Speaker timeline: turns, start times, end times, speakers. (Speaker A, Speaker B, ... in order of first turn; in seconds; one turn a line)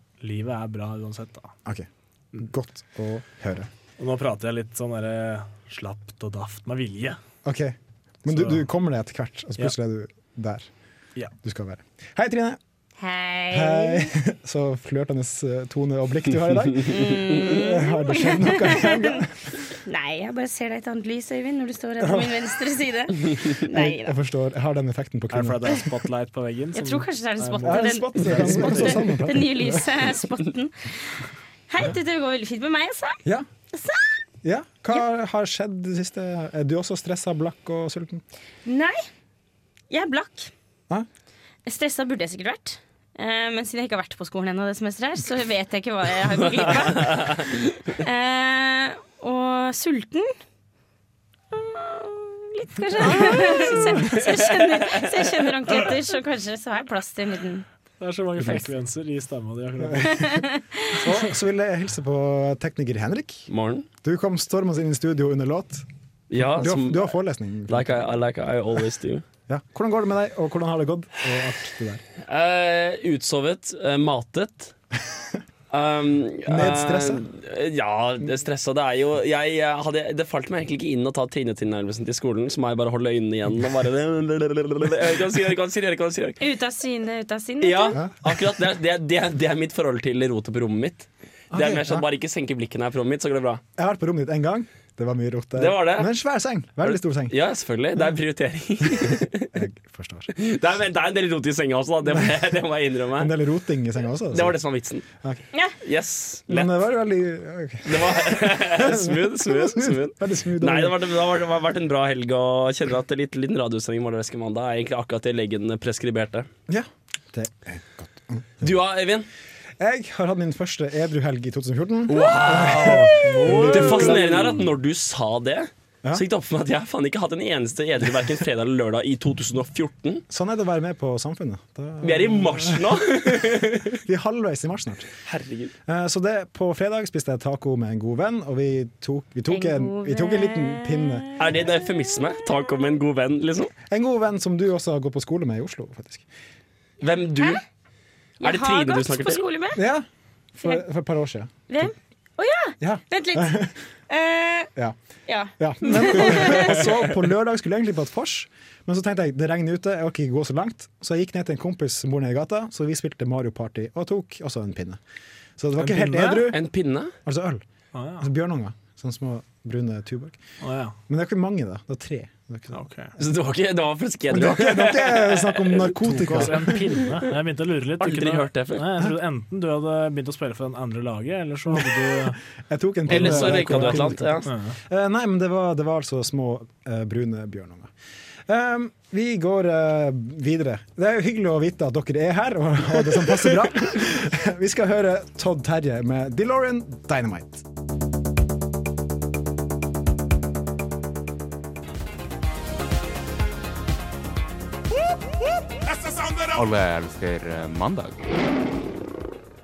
Speaker A: 0.2-1.5
Speaker B: 1.6-3.7
Speaker A: 4.0-7.2
Speaker B: 7.4-10.7
Speaker A: 8.3-8.6
Speaker B: 11.4-12.6
Speaker C: 13.0-14.1
Speaker B: 13.5-19.4
Speaker C: 16.8-19.2
Speaker C: 19.8-24.1
Speaker B: 22.0-22.4
Speaker B: 23.6-26.0
Speaker A: 25.3-29.1
Speaker C: 26.7-33.2
Speaker B: 27.6-29.9
Speaker C: 33.7-34.2
Speaker B: 34.4-38.2
Speaker C: 38.6-39.0
Speaker C: 39.9-40.5
Speaker C: 41.6-47.4
Speaker D: 46.8-47.5
Speaker C: 48.0-50.3
Speaker C: 51.5-57.6
Speaker A: 53.0-53.8
Speaker B: 53.1-53.9
Speaker A: 58.0-60.4
Speaker C: 60.0-61.0
Speaker B: 61.0-63.5
Speaker D: 63.5-63.9
Speaker B: 64.0-65.8
Speaker D: 66.3-67.1
Speaker B: 66.4-68.2
Speaker D: 67.7-69.2
Speaker B: 69.5-72.0
Speaker D: 72.2-74.7
Speaker D: 75.7-86.4
Speaker B: 76.5-77.2
Speaker C: 86.4-88.0
Speaker D: 87.6-93.6
Speaker B: 87.9-88.4
Speaker B: 91.5-92.0
Speaker B: 93.8-97.4
Speaker D: 95.5-96.1
Speaker D: 96.8-99.5
Speaker B: 99.5-100.3
Speaker D: 100.3-103.3
Speaker B: 102.0-102.3
Speaker B: 103.1-104.6
Speaker D: 104.3-105.0
Speaker D: 105.8-106.7
Speaker B: 106.5-111.0
Speaker D: 107.8-116.5
Speaker B: 116.7-118.6
Speaker D: 118.6-119.3
Speaker B: 119.8-124.6
Speaker D: 122.1-130.2
Speaker A: 122.6-124.6
Speaker B: 130.3-135.1
Speaker D: 132.0-134.0
Speaker D: 135.2-135.7
Speaker B: 135.9-141.3
Speaker C: 139.5-141.4
Speaker D: 141.4-143.7
Speaker B: 143.8-146.2
Speaker D: 147.0-147.6
Speaker C: 148.4-149.8
Speaker D: 148.4-149.4
Speaker B: 149.8-151.9
Speaker C: 151.7-154.7
Speaker B: 152.8-153.8
Speaker C: 155.3-156.8
Speaker B: 155.6-165.0
Speaker B: 165.6-166.6
Speaker A: 165.8-166.5
Speaker D: 166.5-167.1
Speaker B: 167.2-167.6
Speaker A: 167.9-168.3
Speaker B: 168.2-170.4
Speaker A: 170.6-171.0
Speaker B: 171.1-172.8
Speaker A: 172.7-173.1
Speaker D: 173.2-176.5
Speaker B: 174.3-176.8
Speaker A: 176.0-182.4
Speaker D: 178.0-178.9
Speaker B: 181.7-182.1
Speaker B: 182.7-187.9
Speaker D: 183.1-184.5
Speaker A: 183.1-184.8
Speaker B: 188.5-197.6
Speaker E: 206.0-208.2